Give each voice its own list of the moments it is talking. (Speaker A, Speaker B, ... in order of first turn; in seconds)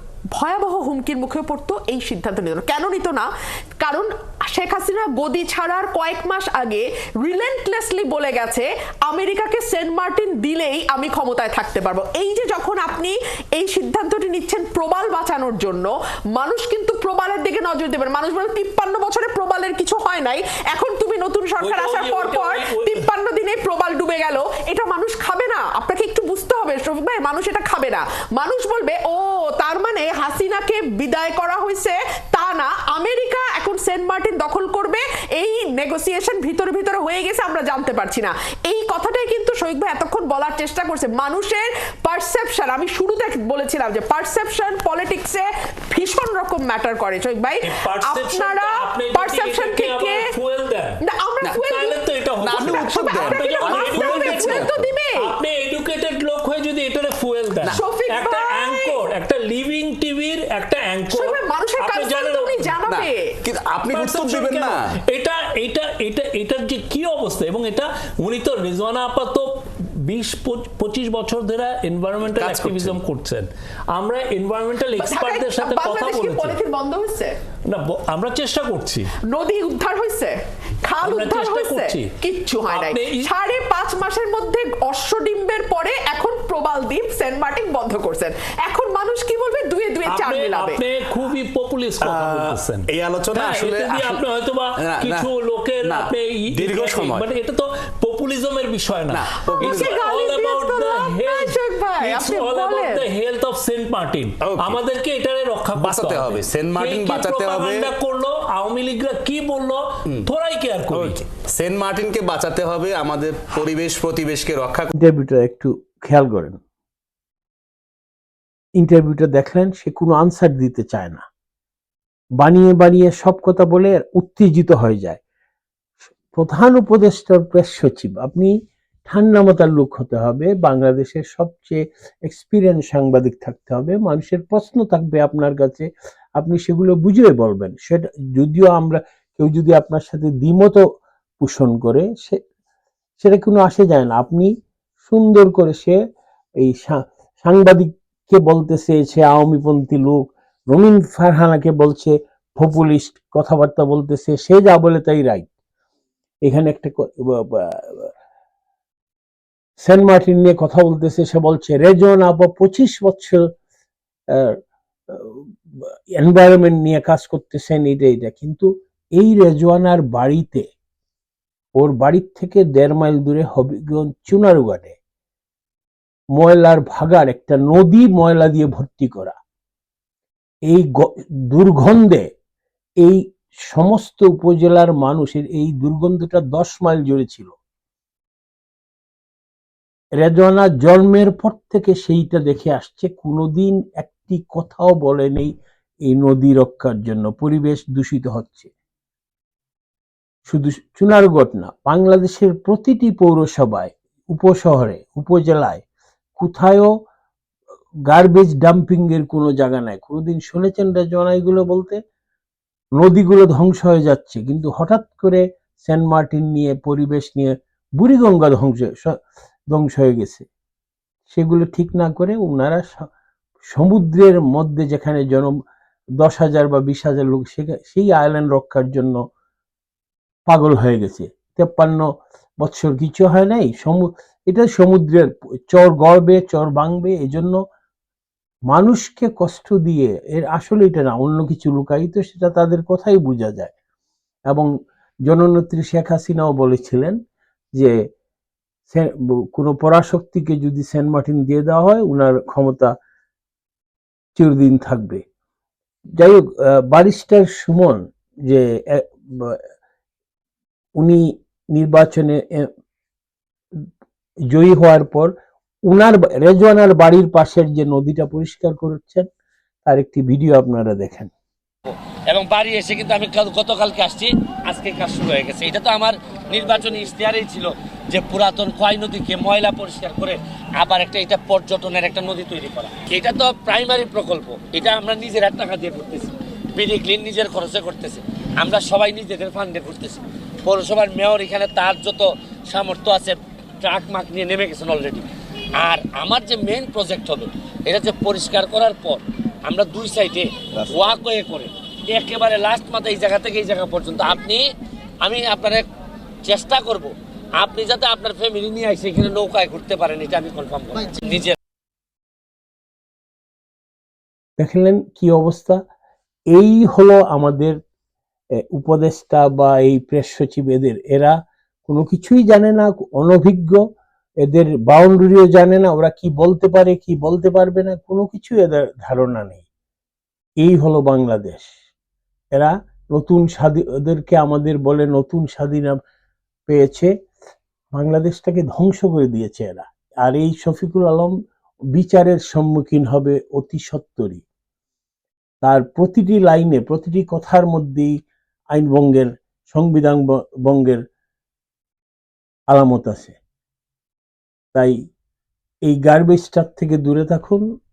Speaker A: 0.3-50.3, 51.0-55.3, 57.7-59.0, 61.1-63.4, 74.9-77.4, 79.2-90.8, 99.5-103.1
Speaker B: 21.6-23.1, 47.6-51.0, 51.6-62.7, 63.9-76.6, 77.7-79.1, 81.0-82.1, 82.7-83.3, 90.0-111.2
Speaker C: 52.4-54.9, 62.9-64.9, 72.2-73.0, 92.0-94.2, 94.8-95.3, 95.8-97.3, 99.1-100.0, 104.4-104.8, 105.8-107.9, 110.9-114.9
Speaker D: 114.9-116.6, 118.8-121.2, 122.4-125.2, 126.3-128.5, 129.1-140.8, 141.4-142.4, 143.2-146.0, 146.6-155.5, 156.4-158.1, 159.8-163.4, 165.1-170.7, 171.8-175.0, 176.4-179.4, 180.7-182.3, 183.0-187.6, 190.2-195.5, 196.1-198.7, 200.5-205.8, 206.4-206.9, 208.1-212.0, 213.0-219.2, 219.7-220.5, 221.3-223.1, 223.7-225.6, 226.2-229.2, 230.5-232.1, 232.6-237.6, 238.7-243.7, 245.3-247.2, 248.9-252.9, 254.4-255.2, 256.2-259.6, 261.0-262.7, 264.5-265.3, 265.9-269.3, 269.8-271.3, 314.6-315.8, 316.5-317.8, 318.7-323.8, 324.4-329.6, 330.6-331.7, 332.5-336.0, 336.7-337.1, 337.9-341.3, 341.9-344.4, 345.6-351.0, 352.7-353.4, 355.9-357.7
Speaker E: 271.8-305.9, 306.4-311.6